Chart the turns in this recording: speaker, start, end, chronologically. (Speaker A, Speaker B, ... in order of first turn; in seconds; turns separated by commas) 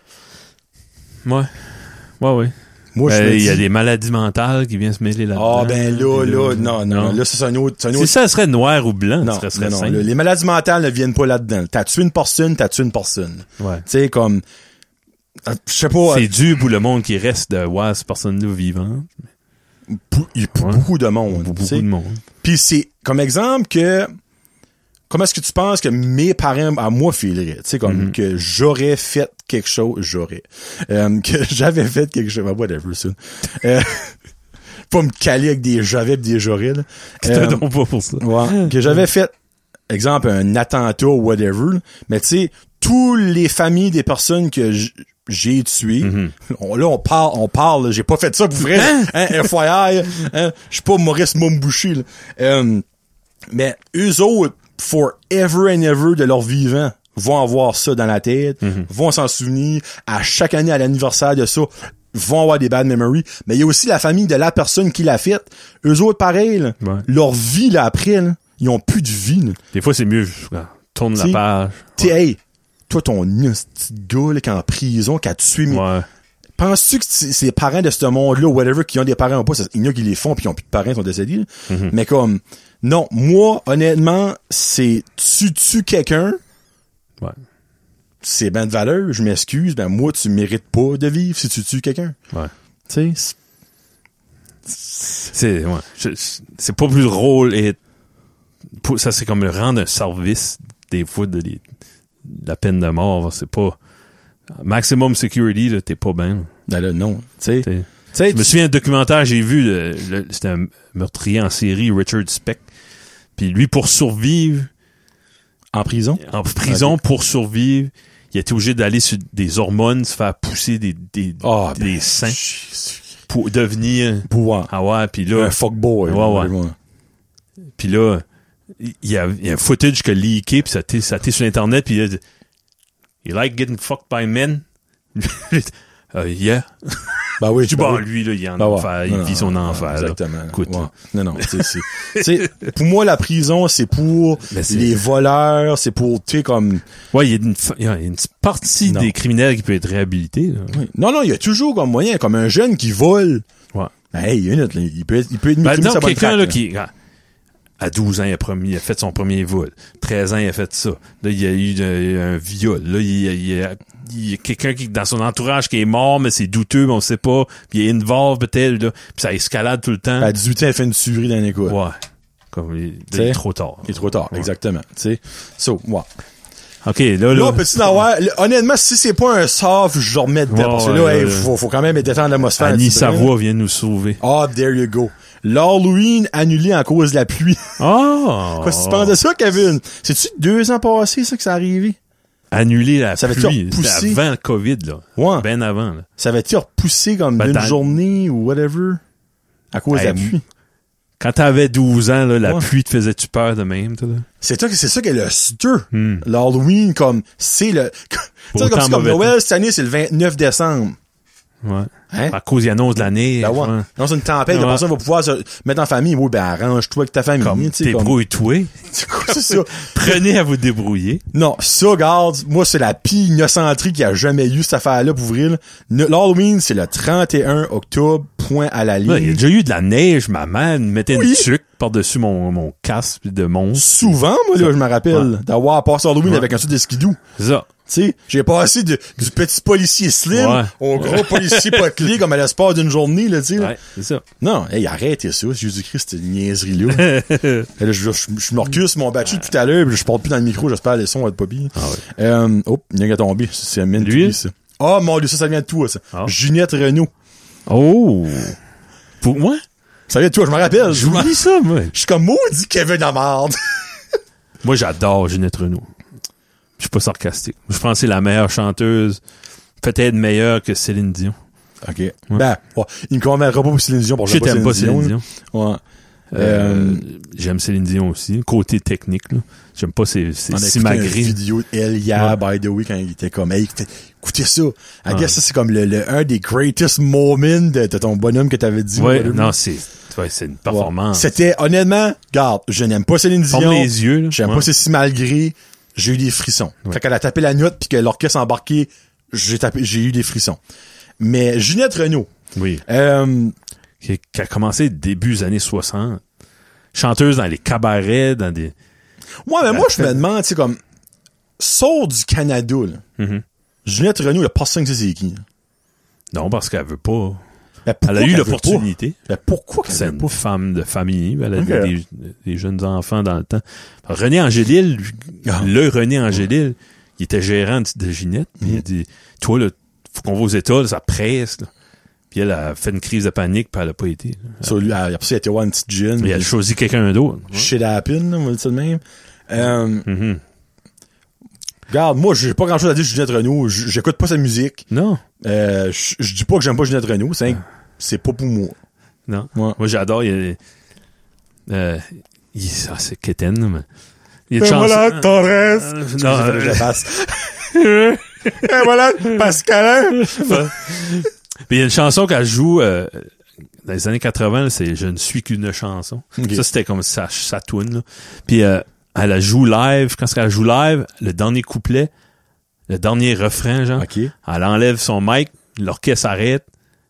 Speaker A: 1.2-2.5, Speaker B: 2.9-3.6, Speaker A: 3.0-7.2, Speaker B: 5.3-8.1, Speaker A: 7.9-10.1, Speaker B: 9.2-14.4, Speaker A: 13.6-13.8, Speaker B: 15.4-16.3, Speaker A: 16.1-19.2, Speaker B: 19.9-21.9, Speaker A: 20.6-22.2, Speaker B: 22.4-24.1, Speaker B: 25.1-34.1, Speaker A: 27.8-28.1, Speaker B: 34.9-37.6, Speaker A: 37.2-38.9, Speaker B: 38.2-39.3, Speaker B: 39.9-52.8, Speaker A: 46.0-46.3, Speaker A: 48.7-49.1, Speaker B: 53.5-69.6, Speaker A: 69.7-72.1, Speaker B: 72.0-75.8, Speaker A: 75.7-76.1, Speaker B: 76.6-86.4, Speaker B: 88.2-92.2, Speaker B: 92.9-93.3, Speaker A: 95.2-97.8, Speaker A: 98.7-101.6, Speaker A: 102.2-103.8, Speaker A: 104.5-106.5, Speaker B: 106.7-108.5, Speaker A: 107.6-112.6, Speaker A: 113.3-114.7, Speaker B: 115.7-117.0, Speaker A: 116.2-122.4, Speaker B: 121.4-123.0, Speaker A: 123.3-126.5, Speaker B: 124.3-124.7, Speaker B: 125.3-126.7, Speaker A: 127.8-128.2, Speaker A: 128.8-132.2, Speaker A: 133.2-134.6, Speaker A: 135.1-142.5, Speaker B: 137.4-138.1, Speaker B: 138.6-146.8, Speaker A: 144.5-144.9, Speaker A: 147.1-150.8, Speaker B: 148.9-149.1, Speaker B: 150.7-153.4, Speaker B: 154.1-156.6, Speaker A: 155.6-156.9, Speaker A: 157.8-170.3, Speaker B: 170.2-171.8, Speaker A: 171.7-172.0, Speaker A: 172.5-174.5, Speaker B: 173.1-176.1, Speaker A: 176.8-178.0, Speaker B: 177.3-183.3, Speaker A: 180.5-181.5, Speaker A: 182.6-184.2, Speaker B: 184.2-187.8, Speaker A: 187.8-189.2, Speaker B: 188.6-192.0, Speaker A: 192.5-196.1, Speaker B: 193.2-194.2, Speaker B: 195.2-195.4, Speaker B: 196.2-199.0, Speaker A: 197.4-197.8, Speaker B: 199.7-200.4, Speaker A: 199.9-200.3, Speaker A: 201.2-204.2, Speaker B: 204.4-211.0, Speaker A: 205.9-206.2, Speaker A: 208.5-209.3, Speaker A: 211.6-213.9, Speaker B: 213.4-218.2, Speaker A: 214.5-214.8, Speaker A: 217.4-218.7, Speaker B: 218.9-220.2, Speaker A: 219.2-221.2, Speaker B: 221.3-229.4, Speaker A: 229.1-235.3, Speaker B: 231.1-231.5, Speaker B: 233.7-237.2, Speaker A: 236.2-236.5, Speaker A: 237.4-237.7, Speaker B: 237.9-243.7, Speaker A: 240.3-242.0, Speaker A: 243.6-244.2, Speaker B: 244.4-247.2, Speaker A: 246.9-247.7, Speaker B: 247.8-257.1, Speaker A: 251.8-252.0, Speaker A: 254.0-254.4, Speaker A: 257.6-258.6, Speaker A: 259.2-259.6, Speaker B: 260.1-263.9, Speaker A: 260.9-261.9, Speaker A: 264.6-265.9, Speaker A: 266.8-269.2, Speaker A: 269.8-271.4, Speaker B: 271.8-275.8, Speaker A: 274.3-275.2, Speaker A: 276.3-281.4, Speaker B: 276.4-277.0, Speaker B: 280.5-289.5, Speaker A: 285.1-285.3, Speaker A: 289.0-291.3, Speaker B: 290.7-300.6, Speaker A: 293.5-294.7, Speaker B: 301.2-302.3, Speaker A: 302.5-302.8, Speaker B: 302.8-303.5, Speaker A: 304.0-306.2, Speaker A: 306.9-308.7, Speaker B: 309.4-310.8, Speaker A: 309.7-310.2, Speaker B: 311.6-313.0, Speaker A: 313.2-313.4, Speaker B: 313.9-315.4, Speaker A: 316.3-317.4, Speaker B: 317.9-320.3, Speaker A: 318.1-319.2, Speaker A: 319.9-331.7, Speaker B: 321.6-321.9, Speaker A: 332.3-334.8, Speaker B: 334.6-336.5, Speaker A: 336.2-337.7, Speaker B: 337.5-340.1, Speaker A: 340.1-340.4, Speaker B: 341.9-344.9, Speaker A: 344.9-345.2, Speaker B: 345.4-348.7, Speaker A: 349.3-350.6, Speaker A: 351.7-353.9, Speaker A: 354.5-357.0, Speaker B: 354.6-357.7, Speaker A: 357.7-358.9, Speaker B: 358.6-361.1, Speaker A: 360.1-363.3, Speaker A: 363.8-372.1, Speaker B: 366.4-366.6, Speaker A: 372.9-376.6, Speaker B: 374.0-374.3